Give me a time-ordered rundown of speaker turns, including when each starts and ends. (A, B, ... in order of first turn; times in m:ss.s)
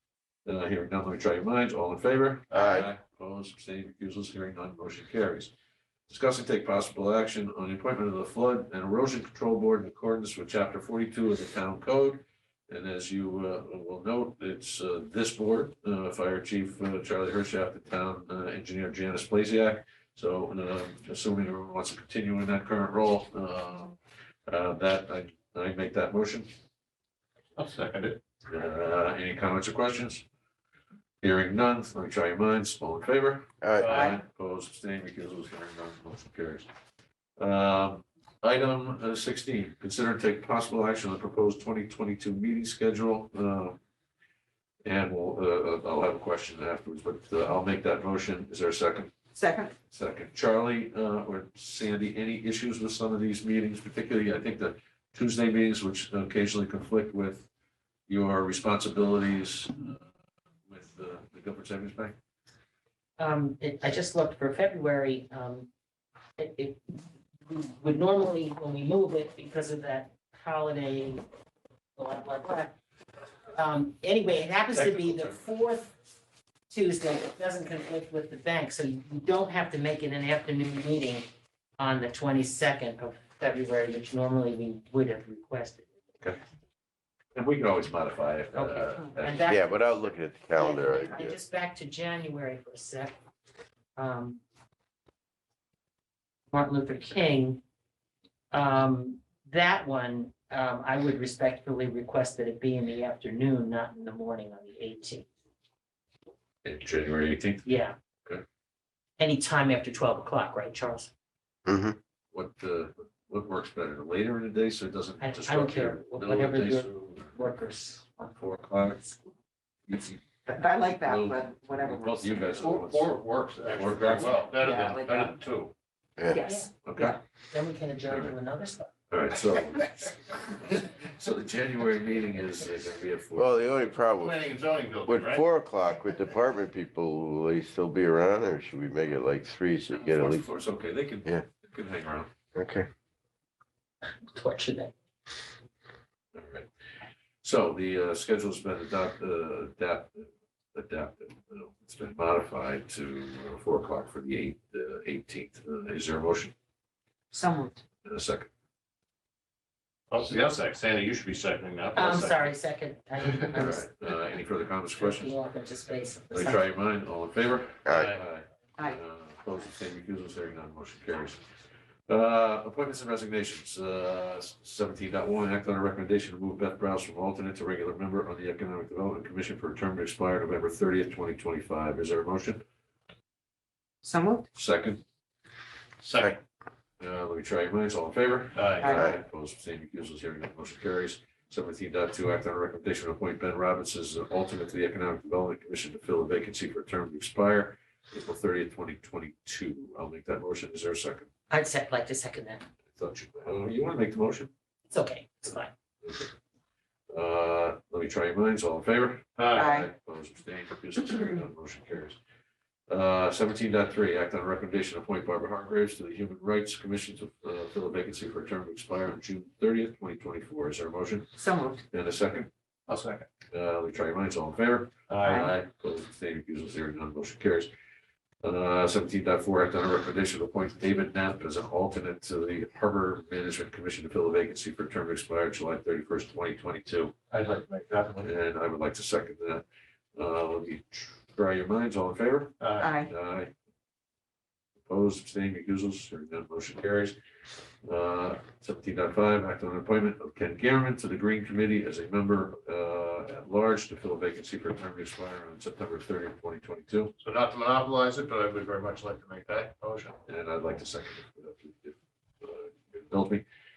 0:00.4-0:05.5 A
0:02.5-0:02.9 B
0:06.1-0:26.5 A
0:27.6-0:28.2 C
0:28.5-0:30.2 A
0:31.2-0:36.7 A
0:33.6-0:34.1 B
0:33.8-0:34.2 C
0:37.4-0:43.8 A
0:44.8-0:49.1 A
0:49.4-0:49.7 D
0:49.9-0:57.5 A
0:58.1-1:00.0 A
1:00.7-1:02.2 A
1:03.2-1:05.7 E
1:06.4-1:06.8 E
1:07.5-1:11.2 E
1:12.0-1:12.7 E
1:13.6-1:15.9 E
1:14.7-1:15.4 A
1:16.7-1:21.2 E
1:21.8-1:25.9 E
1:27.4-1:29.6 A
1:28.5-1:33.2 E
1:29.5-1:31.4 B
1:34.0-1:34.4 E
1:36.5-1:37.6 E
1:38.5-1:45.3 E
1:46.6-1:47.7 A
1:47.7-1:48.0 E
1:49.2-1:51.1 E
1:51.7-1:52.0 B
1:52.3-1:57.4 A
1:55.2-1:58.2 E
1:58.2-1:59.2 A
1:59.9-2:00.2 A
2:00.5-2:02.6 D
2:01.0-2:03.1 A
2:02.4-2:05.7 C
2:03.7-2:04.4 A
2:04.5-2:05.3 D
2:06.3-2:06.7 D
2:06.4-2:08.9 E
2:06.8-2:07.2 A
2:09.1-2:13.9 A
2:13.4-2:14.4 B
2:14.2-2:15.4 C
2:15.1-2:20.5 B
2:19.9-2:22.3 A
2:22.6-2:22.9 B
2:24.1-2:24.9 E
2:26.4-2:26.7 A
2:27.4-2:36.6 A
2:37.3-2:37.8 D
2:38.0-2:38.5 A
2:40.1-2:42.5 C
2:42.0-2:43.9 E
2:43.5-2:45.3 A
2:45.0-2:46.6 E
2:46.3-2:51.4 A
2:47.9-2:48.2 C
2:52.1-3:02.6 A
3:04.0-3:04.5 D
3:04.5-3:05.0 A
3:06.0-3:06.4 C
3:07.0-3:21.3 A
3:08.5-3:09.0 C
3:08.8-3:09.1 D
3:21.5-3:22.6 E
3:22.9-3:24.5 A
3:24.9-3:25.7 E
3:26.0-3:26.3 A
3:27.1-3:32.2 A
3:29.4-3:29.8 C
3:29.5-3:29.9 D
3:32.9-3:41.4 A
3:41.4-3:41.8 D
3:41.9-3:42.5 A
3:42.9-3:43.3 C
3:43.5-3:47.7 A
3:45.1-3:45.5 C
3:45.2-3:45.5 D
3:48.4-3:57.1 A
3:57.3-3:58.3 C
3:58.2-4:03.5 A
4:02.6-4:02.9 C
4:02.8-4:03.1 D
4:04.9-4:07.2 A
4:07.8-4:17.1 A
4:17.2-4:20.2 C
4:20.3-4:23.4 A